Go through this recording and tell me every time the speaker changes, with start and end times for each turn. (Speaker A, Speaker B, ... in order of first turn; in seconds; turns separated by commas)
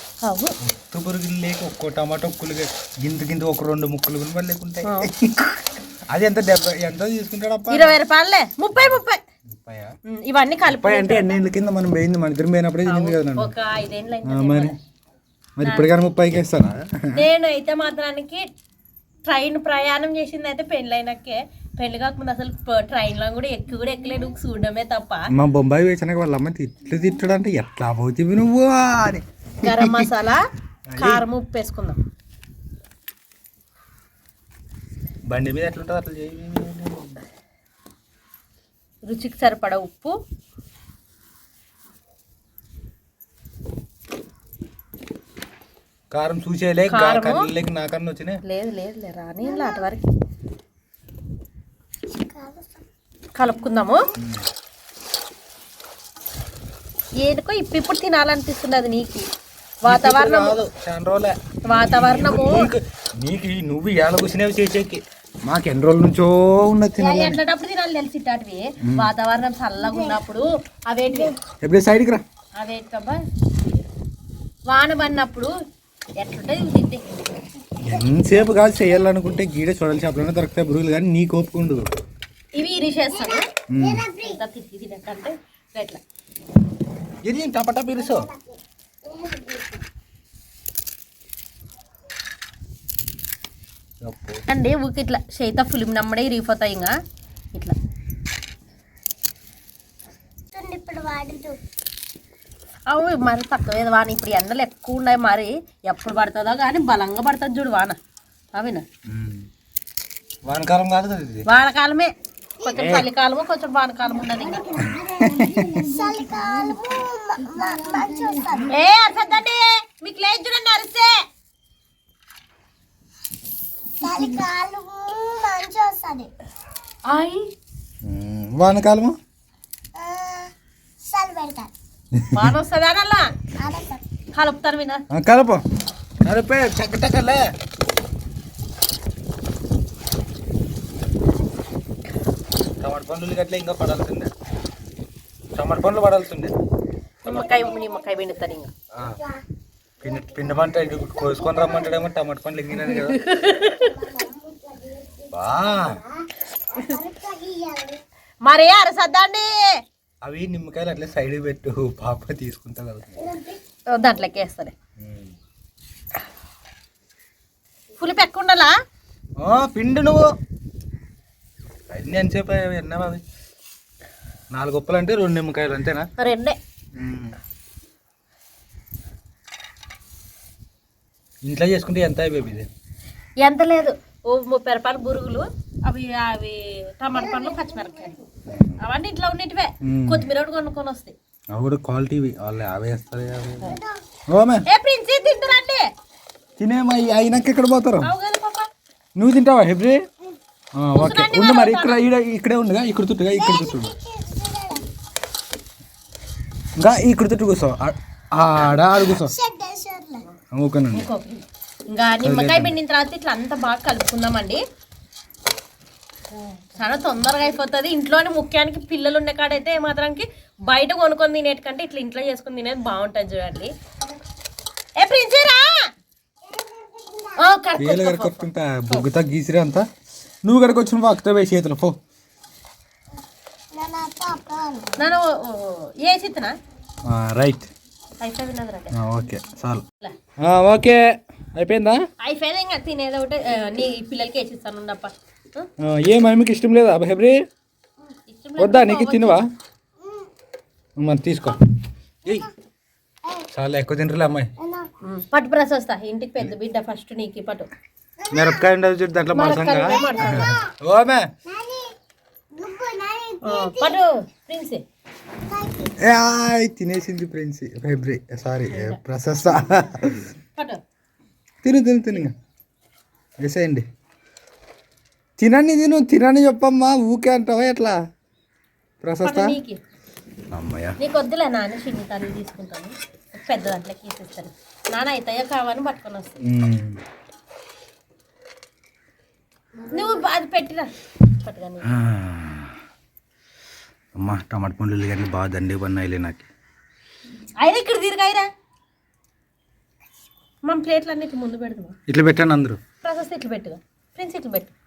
Speaker A: 0.2-0.6, Speaker B: 0.6-8.0, Speaker A: 4.8-5.1, Speaker A: 7.7-9.2, Speaker B: 8.7-9.9, Speaker A: 10.1-11.4, Speaker B: 10.7-13.5, Speaker A: 12.9-14.8, Speaker B: 14.2-14.8, Speaker B: 15.6-17.2, Speaker A: 17.1-18.5, Speaker A: 19.3-25.3, Speaker B: 25.3-30.1, Speaker A: 29.6-30.4, Speaker B: 30.9-31.2, Speaker A: 31.0-32.0, Speaker B: 35.3-37.2, Speaker A: 39.1-40.2, Speaker B: 46.1-48.4, Speaker A: 46.9-47.5, Speaker A: 48.4-50.0, Speaker C: 49.6-49.9, Speaker C: 52.1-52.8, Speaker A: 53.4-54.1, Speaker B: 54.2-54.4, Speaker A: 57.2-59.3, Speaker A: 59.8-60.6, Speaker B: 59.9-67.4, Speaker A: 61.7-62.7, Speaker A: 67.0-71.4, Speaker B: 71.6-72.2, Speaker A: 72.6-73.2, Speaker A: 74.7-75.5, Speaker A: 76.2-77.3, Speaker B: 77.8-81.9, Speaker C: 77.9-78.2, Speaker A: 82.5-83.5, Speaker C: 83.2-84.4, Speaker B: 83.7-84.1, Speaker A: 84.2-86.0, Speaker B: 87.2-88.3, Speaker C: 88.0-89.8, Speaker B: 94.0-94.4, Speaker A: 94.5-96.9, Speaker C: 100.5-101.6, Speaker A: 102.9-108.0, Speaker A: 108.5-108.8, Speaker B: 109.1-109.5, Speaker B: 110.5-111.5, Speaker A: 111.5-114.9, Speaker B: 112.8-113.1, Speaker C: 114.3-118.7, Speaker B: 114.9-115.8, Speaker A: 118.7-121.2, Speaker C: 124.0-126.3, Speaker A: 124.1-124.4, Speaker A: 127.1-127.5, Speaker B: 128.0-129.2, Speaker C: 129.9-131.7, Speaker B: 132.2-132.5, Speaker A: 132.3-133.3, Speaker C: 133.6-134.0, Speaker A: 134.3-135.0, Speaker B: 135.1-135.6, Speaker B: 136.2-137.5, Speaker B: 142.8-144.3, Speaker B: 145.6-146.5, Speaker A: 147.2-148.7, Speaker C: 147.3-148.0, Speaker B: 148.9-149.2, Speaker B: 150.0-153.2, Speaker C: 150.1-150.5, Speaker C: 151.2-151.9, Speaker A: 152.8-154.0, Speaker C: 153.8-158.0, Speaker B: 155.3-156.0, Speaker A: 156.7-157.0, Speaker A: 158.4-159.8, Speaker B: 160.2-163.3, Speaker C: 163.2-163.6, Speaker A: 163.9-164.7, Speaker B: 165.0-165.3, Speaker A: 168.0-168.7, Speaker B: 169.4-170.3, Speaker B: 171.9-173.2, Speaker B: 174.5-176.1, Speaker A: 176.2-176.6, Speaker B: 177.0-177.4, Speaker B: 181.4-182.7, Speaker A: 183.4-188.2, Speaker C: 187.4-188.1, Speaker B: 188.5-188.8, Speaker A: 188.8-191.2, Speaker B: 189.8-190.2, Speaker B: 191.5-193.7, Speaker C: 193.6-194.0, Speaker B: 194.3-194.7, Speaker A: 194.7-195.9, Speaker B: 196.6-198.1, Speaker A: 198.0-198.7, Speaker B: 199.2-200.1, Speaker B: 200.8-203.9, Speaker A: 201.0-202.1, Speaker C: 203.3-204.9, Speaker B: 206.8-209.3, Speaker C: 209.2-210.3, Speaker B: 210.5-211.1, Speaker A: 210.9-214.6, Speaker B: 212.2-212.8, Speaker A: 216.8-223.7, Speaker A: 225.0-225.9, Speaker C: 226.4-227.4, Speaker A: 227.4-229.1, Speaker B: 227.8-229.8, Speaker B: 230.4-232.0, Speaker C: 233.7-235.0, Speaker A: 235.0-236.6, Speaker B: 237.1-237.7, Speaker A: 238.2-238.9, Speaker B: 238.9-239.8, Speaker B: 240.4-242.0, Speaker A: 242.2-245.7, Speaker B: 245.8-247.4, Speaker A: 248.3-249.4, Speaker B: 248.6-249.5, Speaker B: 251.0-251.6, Speaker B: 253.5-254.5, Speaker C: 254.6-254.9, Speaker A: 255.0-257.7, Speaker C: 258.2-258.6, Speaker B: 258.3-261.3, Speaker A: 259.3-260.6, Speaker C: 259.9-260.7, Speaker C: 261.4-261.9, Speaker C: 262.5-264.0, Speaker A: 263.4-264.8, Speaker C: 265.4-266.0, Speaker B: 266.0-270.3, Speaker A: 268.7-269.0, Speaker A: 270.6-270.8, Speaker B: 271.6-272.3, Speaker B: 273.4-273.9, Speaker B: 275.4-278.0, Speaker B: 279.0-279.6, Speaker A: 279.2-279.8, Speaker B: 280.5-281.0, Speaker A: 281.0-286.4, Speaker B: 286.4-287.0, Speaker A: 289.9-291.9, Speaker B: 291.8-292.8, Speaker B: 294.1-296.5, Speaker A: 297.6-298.5, Speaker A: 300.6-302.0, Speaker B: 302.1-302.8, Speaker A: 303.0-304.7